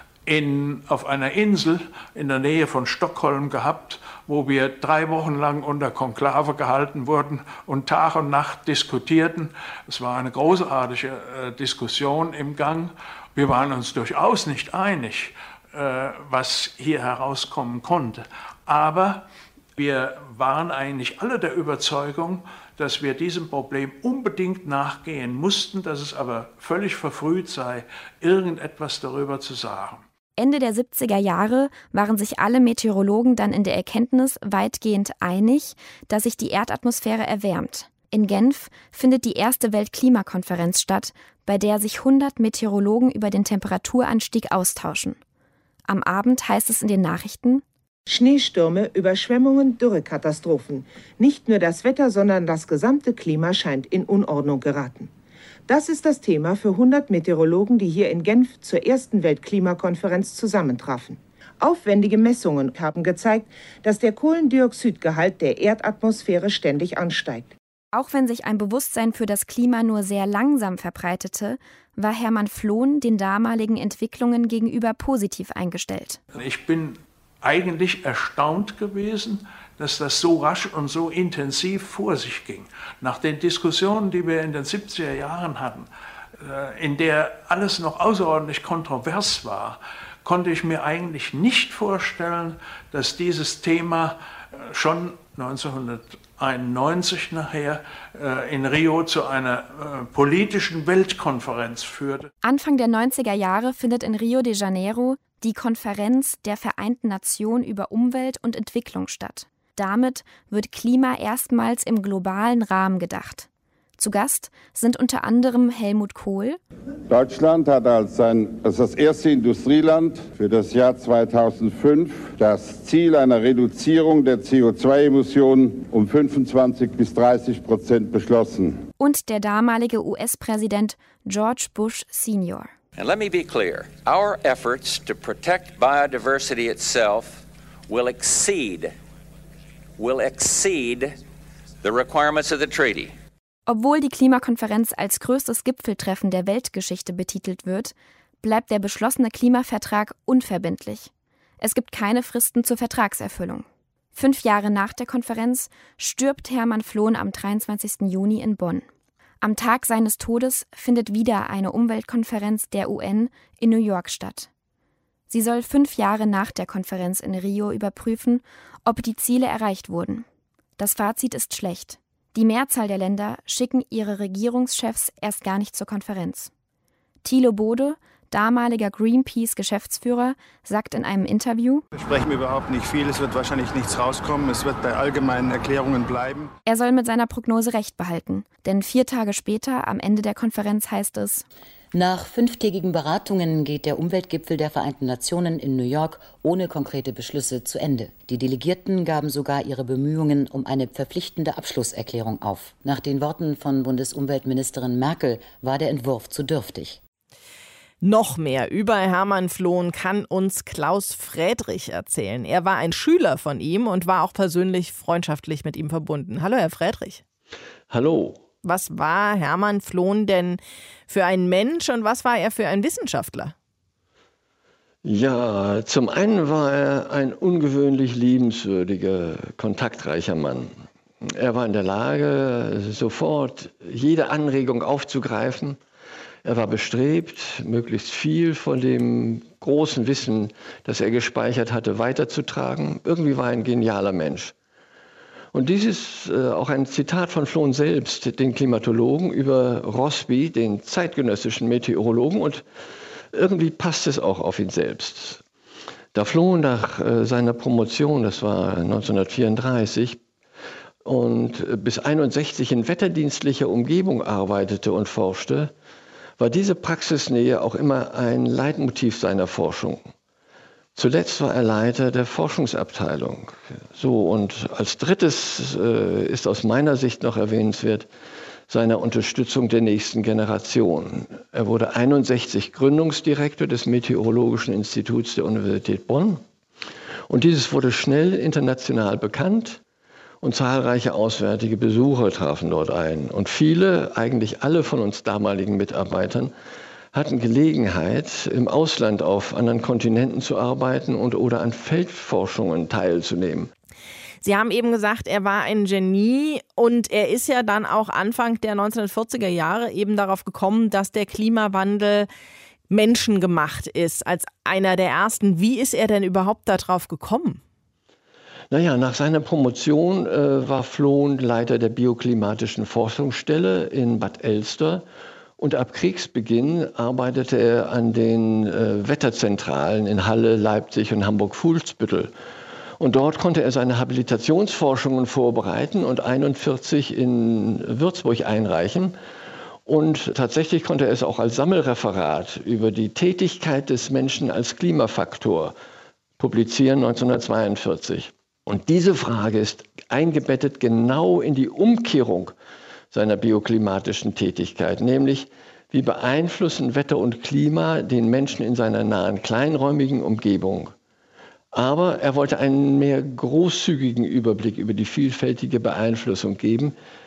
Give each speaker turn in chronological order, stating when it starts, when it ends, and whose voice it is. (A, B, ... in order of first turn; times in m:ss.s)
0:00.2-0:30.0 A
0:30.4-0:45.2 B
0:45.9-0:47.6 B
0:48.1-0:55.1 C
0:55.7-1:07.5 C
1:07.9-1:16.2 B
1:16.3-1:42.3 A
1:42.4-1:53.5 B
1:54.0-1:56.6 B
1:57.1-2:08.8 D
2:09.0-2:12.7 B
2:13.0-2:18.9 E
2:20.0-2:21.1 E
2:21.8-2:23.1 E
2:23.6-2:38.9 B
2:39.4-2:44.5 B
2:45.3-2:50.2 B
2:50.8-2:56.5 B
2:57.2-3:01.8 B
3:01.9-3:06.5 F
3:06.6-3:11.4 B
3:11.9-3:27.0 G
3:28.0-3:37.2 H
3:37.9-3:38.4 I
3:38.6-3:43.5 H
3:45.0-3:50.7 I
3:51.2-3:55.8 I
3:56.4-4:04.5 I
4:05.5-4:12.6 I
4:13.3-4:15.4 I
4:16.1-4:20.2 I
4:21.0-4:25.7 I
4:26.4-4:30.0 I
4:31.0-4:38.1 I
4:38.7-4:46.4 I
4:47.3-4:49.8 I
4:50.4-4:56.5 I
4:57.1-5:03.7 I
5:04.4-5:12.3 H
5:12.9-5:17.6 H
5:18.7-5:25.0 I
5:25.6-5:32.3 I
5:33.0-5:39.1 I
5:39.9-5:45.8 I
5:46.4-5:52.5 I
5:53.1-6:00.9 I
6:01.7-6:06.9 I